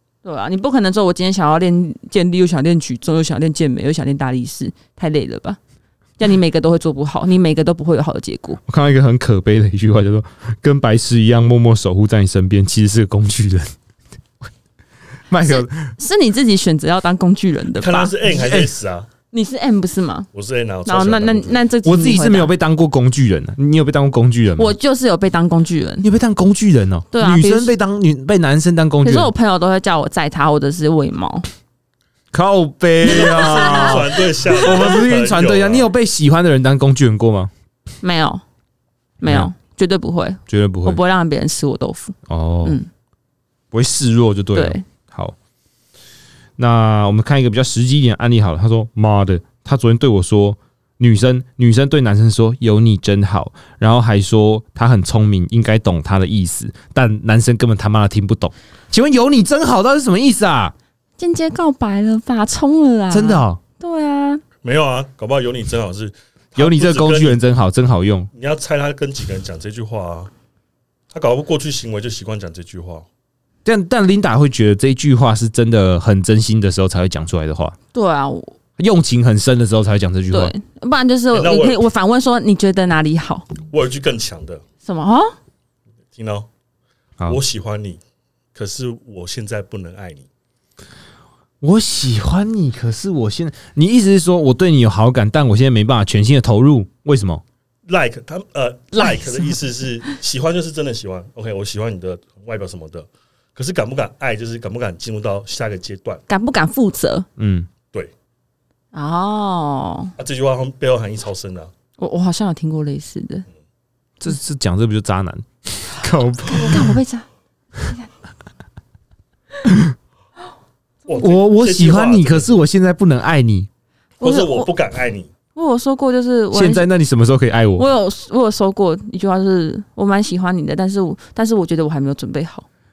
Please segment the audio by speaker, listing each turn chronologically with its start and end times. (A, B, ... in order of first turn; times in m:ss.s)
0:00.2-0:05.6 A
0:06.2-0:08.6 A
0:08.7-0:13.7 B
0:15.3-0:15.9 B
0:15.4-0:18.1 A
0:17.7-0:19.1 C
0:18.3-0:18.7 B
0:19.3-0:20.3 A
0:20.3-0:21.6 C
0:20.8-0:22.5 A
0:21.8-0:24.7 B
0:24.6-0:26.1 A
0:26.0-0:29.3 B
0:27.1-0:27.7 A
0:29.0-0:31.5 A
0:32.3-0:37.5 B
0:33.0-0:34.1 A
0:33.1-0:35.9 C
0:38.0-0:38.4 A
0:39.2-0:42.9 A
0:40.5-0:41.0 B
0:42.3-0:42.8 B
0:43.7-0:45.4 B
0:44.6-0:44.8 A
0:46.6-1:00.7 B
1:01.2-1:04.4 A
1:03.1-1:03.6 B
1:04.6-1:07.4 C
1:06.6-1:08.3 B
1:08.3-1:10.3 C
1:11.1-1:13.1 C
1:13.6-1:17.8 B
1:17.9-1:18.6 A
1:18.8-1:20.5 B
1:20.3-1:23.5 A
1:21.3-1:21.8 C
1:23.6-1:24.6 C
1:24.8-1:25.3 A
1:26.2-1:26.5 C
1:27.3-1:28.0 C
1:28.6-1:30.3 C
1:31.6-1:37.4 B
1:37.9-1:46.2 C
1:39.0-1:39.5 A
1:46.3-1:47.3 A
1:47.4-1:47.7 B
1:48.9-1:50.1 A
1:50.2-1:51.7 C
1:52.0-1:53.4 A
1:54.2-1:56.9 B
1:56.4-1:57.2 A
1:59.6-1:59.9 B
2:01.1-2:02.5 C
2:01.2-2:03.7 B
2:04.2-2:04.7 A
2:04.2-2:05.3 C
2:05.6-2:06.9 A
2:06.5-2:07.9 B
2:07.8-2:12.7 A